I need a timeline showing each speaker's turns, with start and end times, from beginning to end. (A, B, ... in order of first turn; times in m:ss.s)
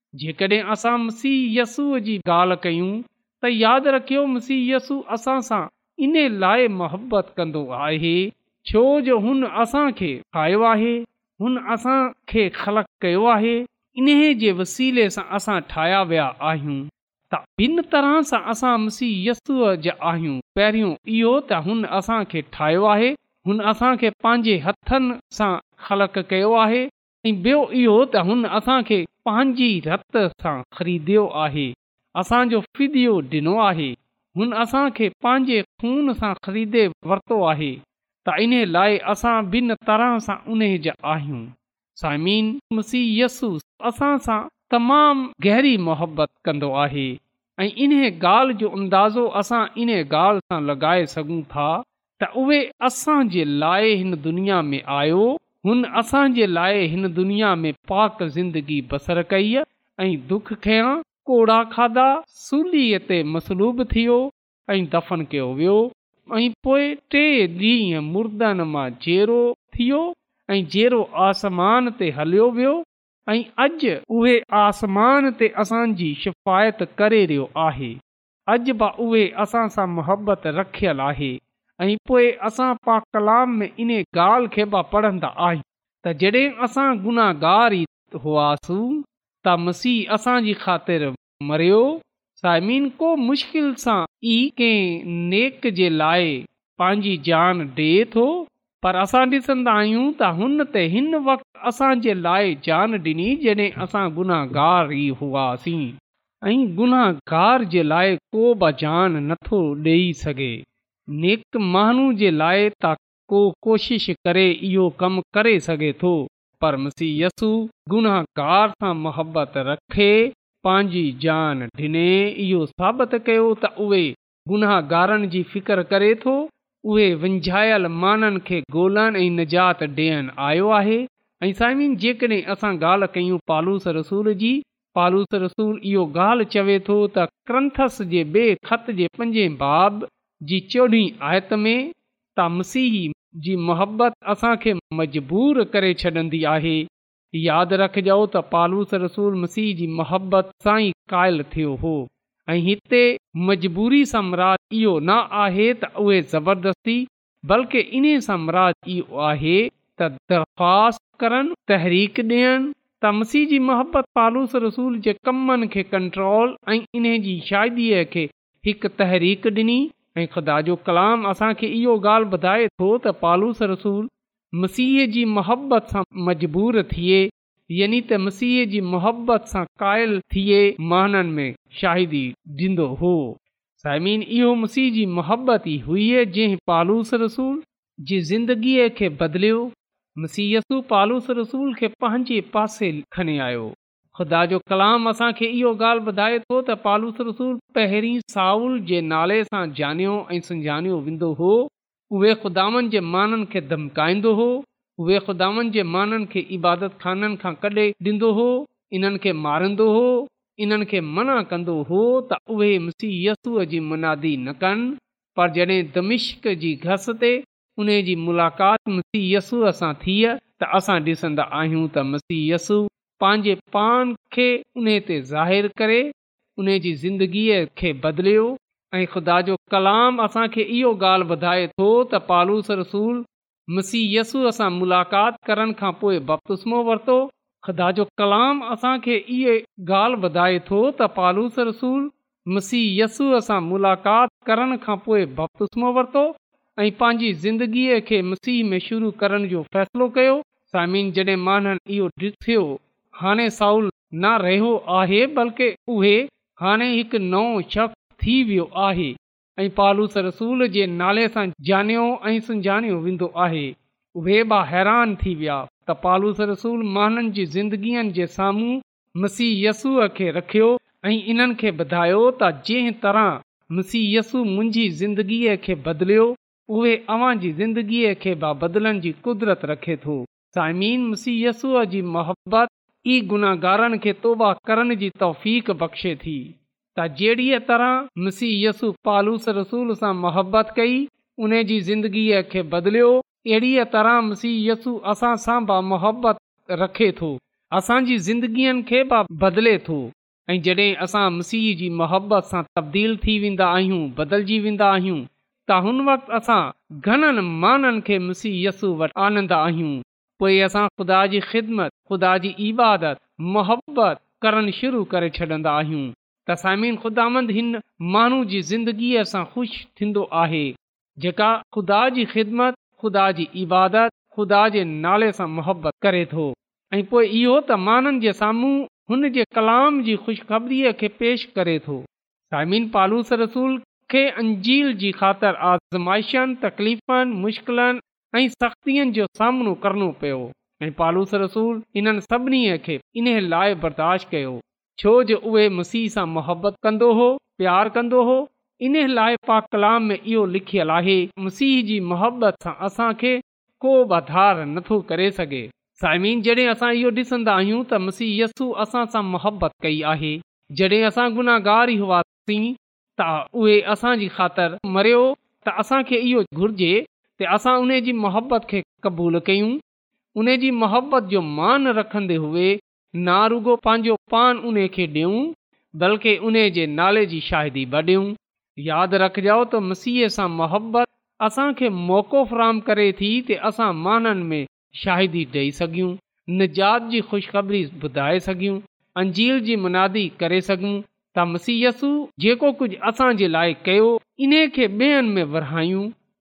0:00.2-1:18.0 A
1:18.5-1:50.6 A
1:51.2-6:09.8 A
6:10.4-6:36.1 A